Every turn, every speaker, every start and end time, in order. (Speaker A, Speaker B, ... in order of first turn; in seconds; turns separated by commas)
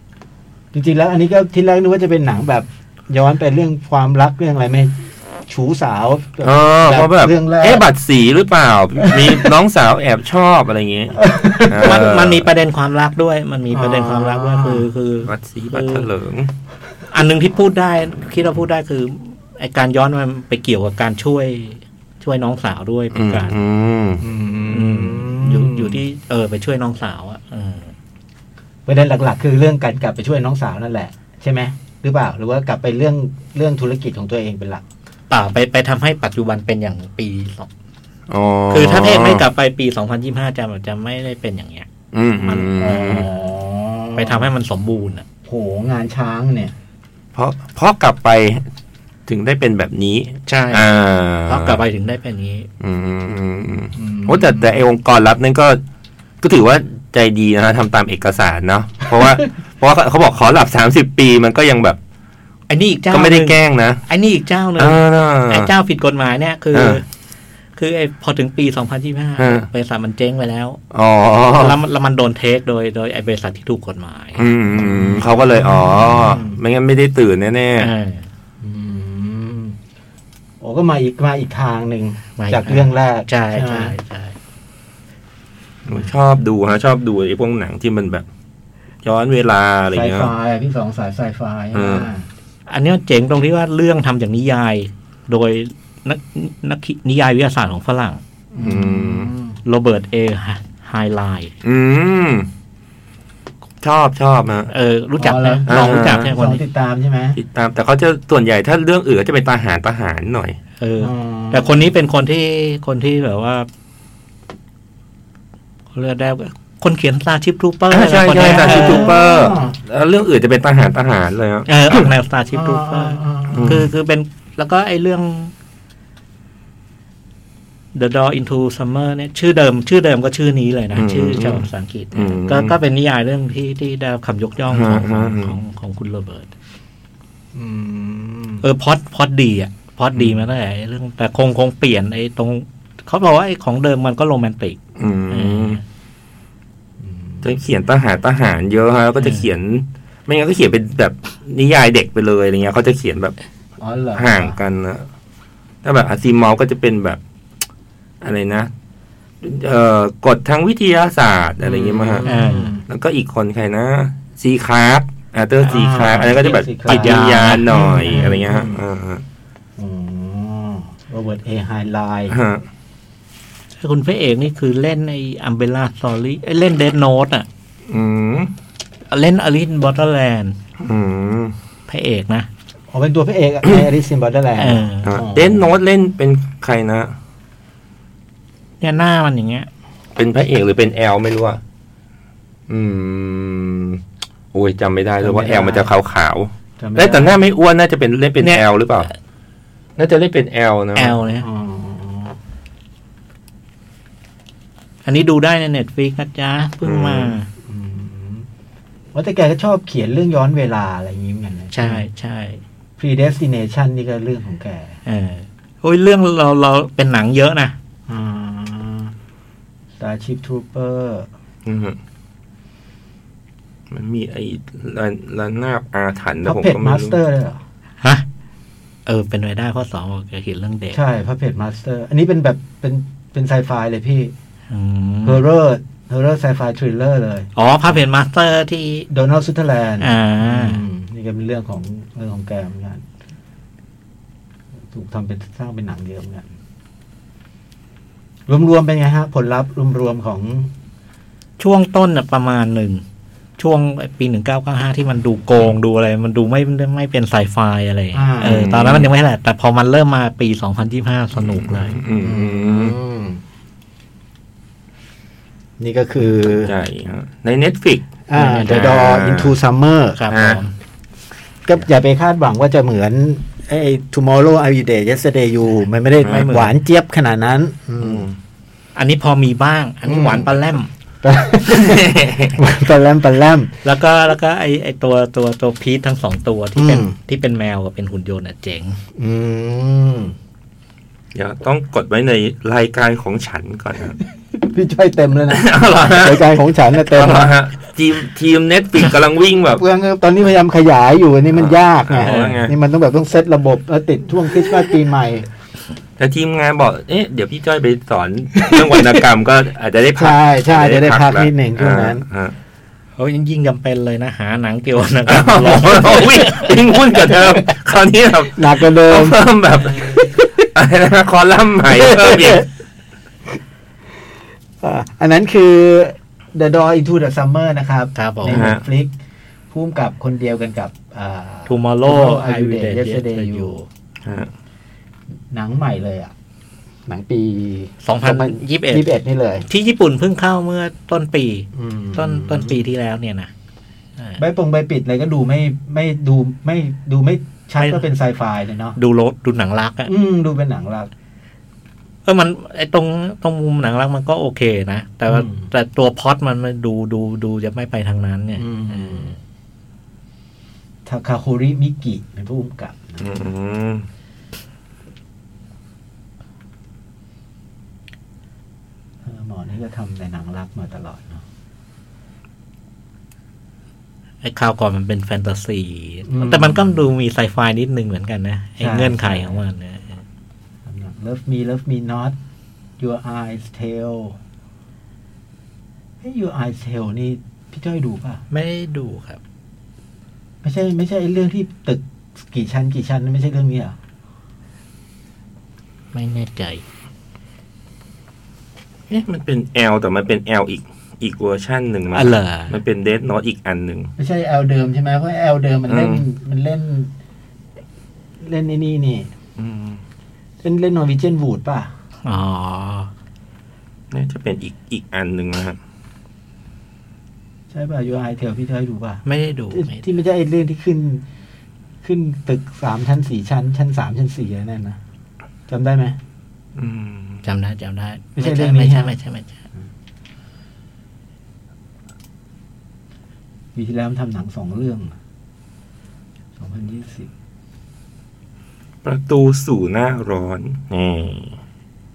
Speaker A: 0.7-5.0, Speaker A: 5.5-7.8, Speaker B: 6.4-12.4, Speaker A: 9.0-9.5, Speaker A: 11.2-12.1, Speaker C: 11.8-16.1, Speaker A: 13.7-14.9, Speaker B: 15.2-16.5, Speaker C: 17.1-23.6, Speaker B: 23.1-24.2, Speaker A: 24.2-26.0, Speaker C: 24.7-27.9, Speaker A: 28.9-34.8, Speaker C: 35.3-37.7, Speaker B: 38.3-39.4, Speaker C: 38.7-41.9, Speaker B: 42.1-43.3, Speaker C: 42.4-42.7, Speaker A: 42.8-44.5, Speaker C: 44.1-45.2, Speaker A: 45.4-46.7, Speaker B: 47.3-48.6, Speaker B: 49.3-51.8, Speaker C: 50.5-50.9, Speaker C: 51.5-52.7, Speaker B: 52.8-55.8, Speaker A: 54.0-54.8, Speaker B: 56.4-62.0, Speaker C: 62.7-67.0, Speaker B: 63.1-64.0, Speaker B: 64.8-65.7, Speaker B: 66.7-67.0, Speaker C: 67.8-70.8, Speaker B: 69.4-69.7, Speaker B: 70.9-71.8, Speaker C: 71.5-74.5, Speaker B: 74.4-77.9, Speaker A: 74.8-76.5, Speaker C: 76.0-76.3, Speaker C: 77.8-78.3, Speaker A: 78.6-79.8, Speaker A: 80.6-83.9, Speaker C: 82.4-84.3, Speaker B: 85.8-88.2, Speaker B: 89.0-90.3, Speaker A: 89.9-92.3, Speaker B: 91.7-92.1, Speaker C: 92.7-98.2, Speaker A: 98.5-99.6, Speaker B: 98.6-99.3, Speaker C: 99.6-101.5, Speaker B: 101.6-102.5, Speaker B: 103.8-104.7, Speaker C: 104.7-106.6, Speaker A: 105.2-107.4, Speaker B: 105.7-106.3, Speaker B: 107.3-110.6, Speaker C: 110.8-113.7, Speaker A: 111.0-111.9, Speaker C: 115.9-119.1, Speaker B: 117.9-122.1, Speaker A: 118.4-119.8, Speaker C: 121.7-125.5, Speaker A: 122.5-123.8, Speaker B: 123.5-123.9, Speaker C: 127.9-136.5, Speaker B: 130.9-132.8, Speaker B: 134.7-135.5, Speaker A: 137.5-138.6, Speaker C: 138.6-144.8, Speaker B: 145.0-145.8, Speaker C: 145.3-145.8, Speaker A: 147.0-147.5, Speaker B: 147.4-153.3, Speaker C: 149.2-149.4, Speaker A: 153.8-154.6, Speaker B: 154.2-155.1, Speaker B: 155.8-157.2, Speaker B: 158.2-158.7, Speaker B: 159.4-162.3, Speaker A: 161.6-162.8, Speaker C: 162.2-162.7, Speaker B: 162.9-169.2, Speaker A: 165.6-168.8, Speaker C: 166.8-168.3, Speaker A: 169.8-172.3, Speaker B: 172.3-172.6, Speaker C: 173.8-177.5, Speaker B: 177.9-178.5, Speaker C: 179.1-180.6, Speaker B: 180.8-181.6, Speaker C: 181.9-182.5, Speaker A: 182.9-185.7, Speaker C: 184.6-185.1, Speaker B: 185.0-187.1, Speaker C: 188.8-189.7, Speaker B: 190.2-191.6, Speaker B: 192.7-194.0, Speaker B: 194.5-199.1, Speaker A: 195.2-195.9, Speaker A: 196.8-197.4, Speaker C: 198.4-198.7, Speaker B: 200.0-201.2, Speaker C: 200.9-201.5, Speaker A: 201.4-202.4, Speaker C: 205.0-207.5, Speaker B: 206.8-207.4, Speaker A: 207.7-208.5, Speaker A: 209.1-212.0, Speaker C: 211.7-212.6, Speaker A: 213.0-215.0, Speaker C: 215.1-217.8, Speaker A: 218.1-219.1, Speaker A: 220.0-221.3, Speaker B: 221.6-222.0, Speaker B: 223.9-227.2, Speaker A: 226.4-227.6, Speaker C: 229.1-231.0, Speaker A: 230.9-234.3, Speaker C: 234.7-235.4, Speaker A: 235.2-237.5, Speaker C: 237.6-239.1, Speaker A: 239.1-243.0, Speaker C: 240.0-240.8, Speaker A: 244.9-246.5, Speaker A: 248.5-250.7, Speaker C: 251.6-253.0, Speaker C: 253.6-262.0, Speaker A: 258.1-258.7, Speaker B: 258.4-259.1, Speaker B: 261.4-262.9, Speaker A: 262.2-263.4, Speaker A: 265.8-266.7, Speaker B: 266.6-268.1, Speaker A: 268.3-270.2, Speaker C: 268.3-269.0, Speaker B: 268.6-269.6, Speaker C: 270.1-270.7, Speaker B: 270.3-270.6, Speaker A: 271.6-278.3, Speaker B: 276.2-276.6, Speaker C: 276.2-276.7, Speaker B: 278.0-278.4, Speaker C: 278.9-280.9, Speaker A: 280.1-280.5, Speaker A: 281.2-283.7, Speaker B: 281.7-282.6, Speaker C: 283.8-289.0, Speaker A: 286.8-287.1, Speaker A: 289.1-290.3, Speaker B: 291.3-294.2, Speaker A: 294.5-297.5, Speaker B: 295.5-296.5, Speaker B: 297.1-299.8, Speaker A: 299.7-305.5, Speaker B: 301.6-302.7, Speaker C: 302.2-302.6, Speaker B: 306.2-312.5, Speaker A: 308.6-309.2, Speaker A: 310.1-312.2, Speaker C: 313.2-316.8, Speaker B: 315.3-322.7, Speaker A: 317.3-317.6, Speaker A: 318.5-319.4, Speaker A: 321.9-322.6, Speaker A: 324.8-329.1, Speaker C: 328.1-328.6, Speaker B: 328.5-328.8, Speaker A: 329.7-333.8, Speaker C: 331.7-333.9, Speaker B: 334.2-334.5, Speaker A: 335.5-336.3, Speaker A: 337.1-339.6, Speaker C: 338.0-339.1, Speaker C: 339.7-343.5, Speaker A: 341.7-342.8, Speaker A: 344.4-349.0, Speaker C: 348.9-350.1, Speaker A: 350.1-351.1, Speaker C: 352.2-359.4, Speaker A: 355.3-355.7, Speaker A: 358.6-359.3, Speaker A: 361.0-363.2, Speaker B: 363.2-364.1, Speaker A: 369.2-371.4, Speaker C: 374.4-380.2, Speaker A: 376.3-376.9, Speaker A: 378.8-379.6, Speaker A: 380.8-382.4, Speaker A: 383.0-384.4, Speaker A: 386.2-388.4, Speaker C: 388.5-389.4, Speaker A: 390.6-394.0, Speaker C: 396.1-396.8, Speaker B: 399.1-404.1, Speaker C: 402.1-402.8, Speaker A: 404.2-407.1, Speaker B: 405.9-406.2, Speaker A: 408.4-409.3, Speaker B: 409.6-410.0, Speaker A: 410.6-411.9, Speaker C: 412.2-413.1, Speaker B: 414.1-415.8, Speaker A: 417.7-421.2, Speaker C: 419.2-420.0, Speaker A: 422.0-425.0, Speaker A: 425.7-426.2, Speaker B: 426.8-427.4, Speaker C: 427.4-429.6, Speaker A: 428.4-429.1, Speaker A: 433.7-435.1, Speaker A: 436.6-437.3, Speaker B: 439.0-441.6